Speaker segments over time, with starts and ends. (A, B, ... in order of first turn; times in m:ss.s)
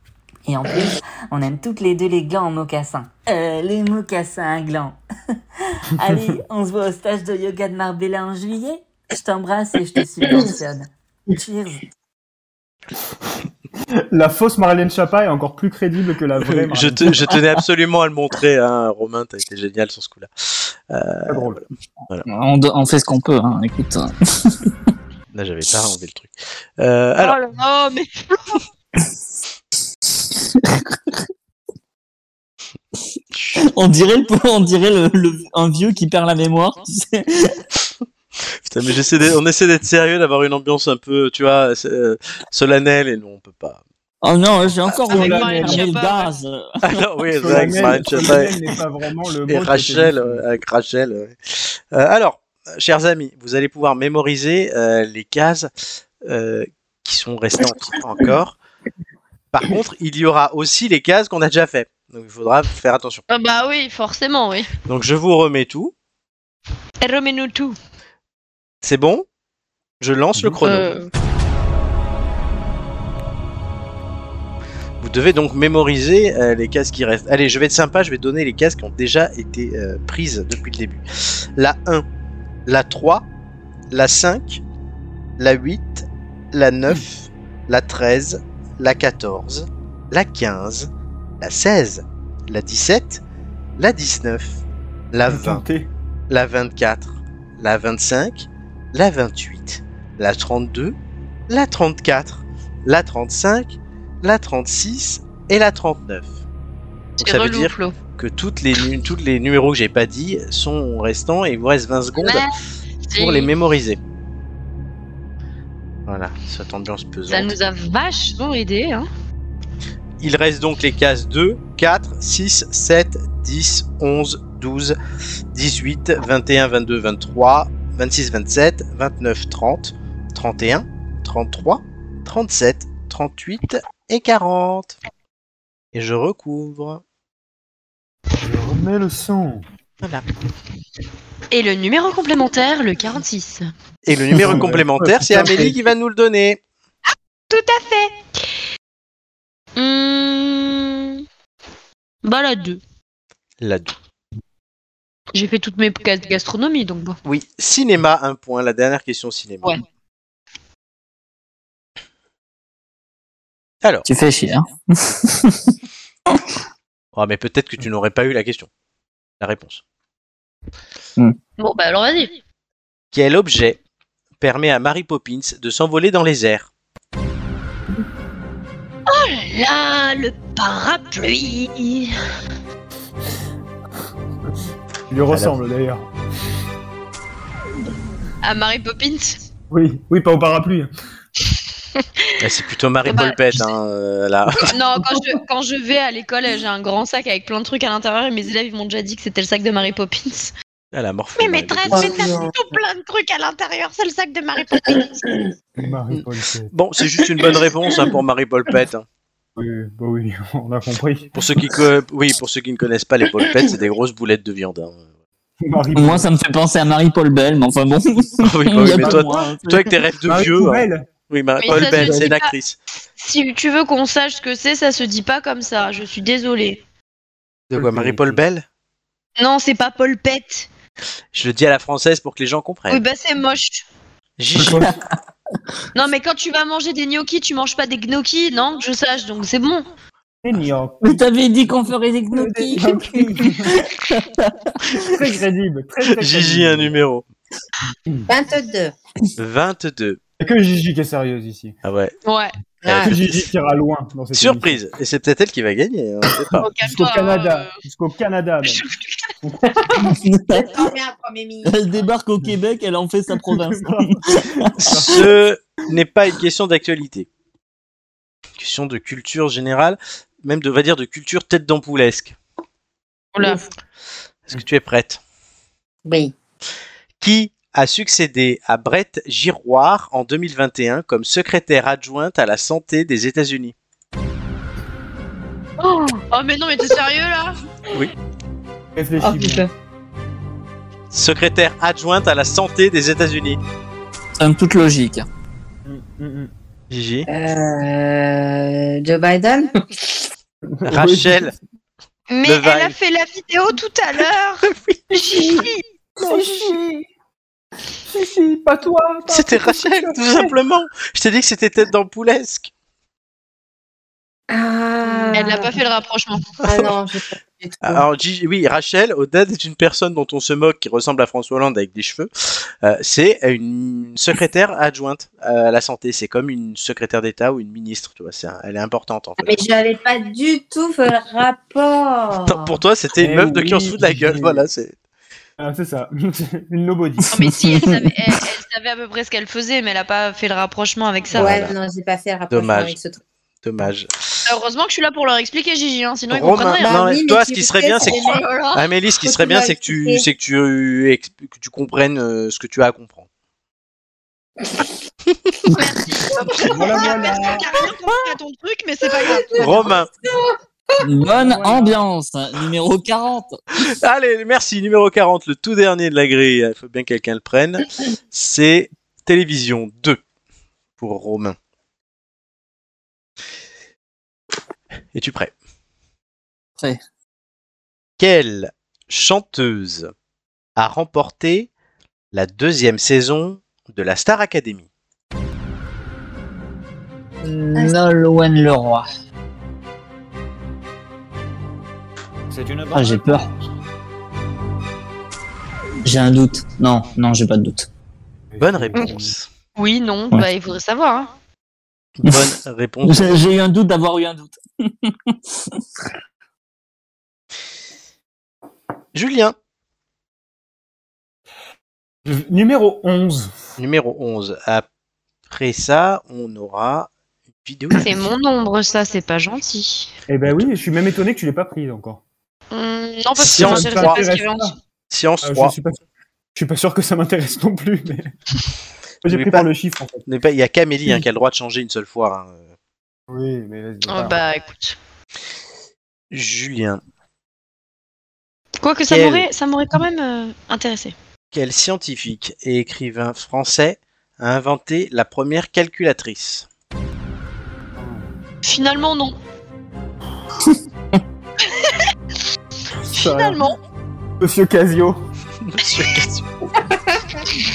0:00.4-0:05.0 A
0:06.0-0:11.8 A
0:06.0-0:06.3 B
0:14.1-0:17.2 B
0:16.6-0:22.2 C
0:21.3-0:21.6 B
0:22.3-0:24.7 D
0:25.3-0:27.4 C
0:27.2-0:28.6 E
0:30.6-0:31.1 D
0:33.7-0:37.6 D
0:38.6-0:43.8 C
0:44.2-0:46.6 D
0:45.1-0:46.3 E
0:45.1-0:45.8 B
0:46.8-0:48.6 C
0:47.4-0:50.4 B
0:49.5-0:55.7 C
0:56.2-0:58.6 C
0:59.5-1:03.2 C
1:03.3-1:04.7 E
1:04.9-1:05.9 C
1:07.0-1:07.8 E
1:08.8-1:09.2 C
1:10.0-1:10.9 C
1:10.6-1:11.1 E
1:15.0-1:22.0 C
1:22.6-1:23.3 C
1:23.9-1:24.6 C
1:25.4-1:33.2 C
1:33.8-1:34.6 C
1:35.1-1:35.6 C
1:35.3-1:35.9 B
1:36.3-1:41.0 C
1:41.5-1:46.3 C
1:47.2-1:47.9 E
1:47.2-1:52.5 C
1:52.2-1:52.5 E
1:53.1-1:53.5 E
1:53.2-1:54.0 C
1:56.1-1:57.5 C
1:57.3-1:59.1 E
2:00.2-2:05.0 C
2:05.5-2:15.0 C
2:15.9-2:17.0 C
2:18.4-2:19.6 B
2:21.5-2:23.7 E
2:24.0-2:26.6 C
2:24.4-2:25.8 B
2:27.5-2:28.1 E
2:29.8-2:31.2 E
2:32.2-2:32.8 E
2:33.6-2:33.9 C
2:35.3-2:37.2 E
2:37.2-2:39.8 C
2:44.0-2:45.7 D
2:47.1-2:48.7 C
2:49.4-2:49.8 C
2:51.6-2:52.4 E
2:53.1-2:53.8 C
2:54.4-2:56.7 C
2:59.1-3:02.1 E
3:05.1-3:06.1 B
3:08.4-3:09.4 E
3:09.7-3:10.9 B
3:12.0-3:12.3 E
3:12.4-3:14.8 C
3:13.0-3:13.6 E
3:14.6-3:20.5 E
3:20.9-3:22.1 C
3:21.4-3:25.2 E
3:21.9-3:22.5 F
3:24.8-3:25.4 F
3:25.8-3:26.7 B
3:26.1-3:29.0 C
3:29.6-3:31.4 B
3:31.3-3:35.0 C
3:35.6-3:36.3 B
3:35.9-3:39.9 D
3:38.4-3:42.8 C
3:38.9-3:39.4 B
3:40.3-3:41.1 B
3:41.6-3:42.5 E
3:41.7-3:42.3 B
3:43.2-3:46.8 E
3:47.7-3:48.6 C
3:47.7-3:48.4 B
3:49.4-3:50.7 E
3:51.3-3:53.0 C
3:52.9-3:53.8 E
3:54.4-3:54.9 C
3:54.6-3:54.9 B
3:54.6-3:54.9 D
3:55.9-3:59.8 E
4:00.4-4:01.2 B
4:01.0-4:05.1 D
4:02.3-4:03.8 B
4:05.0-4:07.0 B
4:06.1-4:07.2 C
4:08.3-4:08.9 F
4:09.4-4:10.2 C
4:10.4-4:11.8 B
4:11.8-4:12.1 C
4:12.2-4:12.5 E
4:12.8-4:13.3 F
4:12.8-4:13.4 C
4:13.0-4:14.8 B
4:14.3-4:16.6 C
4:16.6-4:17.7 E
4:16.8-4:18.8 B
4:18.6-4:19.3 E
4:19.4-4:19.7 B
4:19.7-4:22.0 F
4:20.0-4:20.7 D
4:21.6-4:24.6 D
4:23.6-4:25.3 B
4:24.8-4:27.3 C
4:28.6-4:32.4 C
4:33.3-4:33.6 E
4:34.5-4:35.2 C
4:36.0-4:36.3 F
4:37.2-4:43.7 C
4:45.8-4:47.6 E
4:49.0-4:49.6 B
4:49.2-4:49.7 F
4:51.1-4:53.6 C
4:54.4-4:55.3 D
4:55.8-4:56.5 B
4:56.9-4:57.3 C
4:57.3-5:00.2 F
5:00.7-5:01.5 B
5:00.9-5:01.5 C
5:02.3-5:05.8 E
5:02.4-5:02.9 C
5:04.6-5:05.0 C
5:06.2-5:07.1 B
5:08.1-5:10.5 B
5:09.3-5:12.7 C
5:14.5-5:15.7 F
5:15.3-5:16.4 E
5:16.6-5:16.9 C
5:16.6-5:18.0 F
5:17.8-5:29.6 C
5:29.4-5:32.7 F
5:32.4-5:34.9 C
5:33.2-5:34.6 B
5:35.6-5:37.3 B
5:37.3-5:41.5 E
5:37.4-5:38.1 D
5:41.3-5:41.7 C
5:41.3-5:43.2 F
5:42.5-5:43.0 C
5:43.6-5:44.4 C
5:44.4-5:47.0 E
5:46.3-5:53.3 C
5:46.8-5:48.5 F
5:48.0-5:48.8 E
5:49.2-5:50.2 F
5:55.7-5:59.9 E
5:56.6-5:57.8 F
5:56.6-5:57.6 B
5:59.1-6:01.0 F
5:59.6-6:00.1 C
6:01.0-6:03.6 D
6:01.3-6:02.0 B
6:03.8-6:10.2 C
6:11.0-6:11.6 C
6:15.1-6:15.5 C
6:18.2-6:20.1 C
6:20.8-6:21.7 C
6:22.3-6:24.9 C
6:27.4-6:29.1 D
6:32.5-6:33.4 B
6:32.9-6:33.5 D
6:36.0-6:37.9 D
6:38.5-6:39.3 B
6:38.6-6:39.4 C
6:39.8-6:41.3 E
6:42.2-6:43.4 C
6:43.0-6:45.8 D
6:49.1-6:49.6 C
6:52.2-6:53.5 B
6:53.8-6:54.8 C
6:55.5-6:57.1 C
6:57.6-6:58.1 C
6:58.0-7:00.1 E
7:00.3-7:02.2 B
7:02.7-7:04.7 E
7:03.4-7:04.2 C
7:03.5-7:04.7 B
7:05.1-7:05.7 C
7:05.4-7:06.0 B
7:06.5-7:08.3 B
7:09.2-7:10.2 B
7:09.3-7:09.7 C
7:10.3-7:12.6 C
7:13.3-7:14.4 B
7:14.1-7:15.0 E
7:16.3-7:17.0 C
7:18.8-7:21.1 E
7:19.1-7:19.5 C
7:21.5-7:26.7 C
7:28.0-7:28.3 B
7:28.6-7:29.4 E
7:31.7-7:32.0 E
7:33.1-7:33.6 B
7:33.1-7:33.8 E
7:34.4-7:35.2 B
7:35.6-7:36.4 C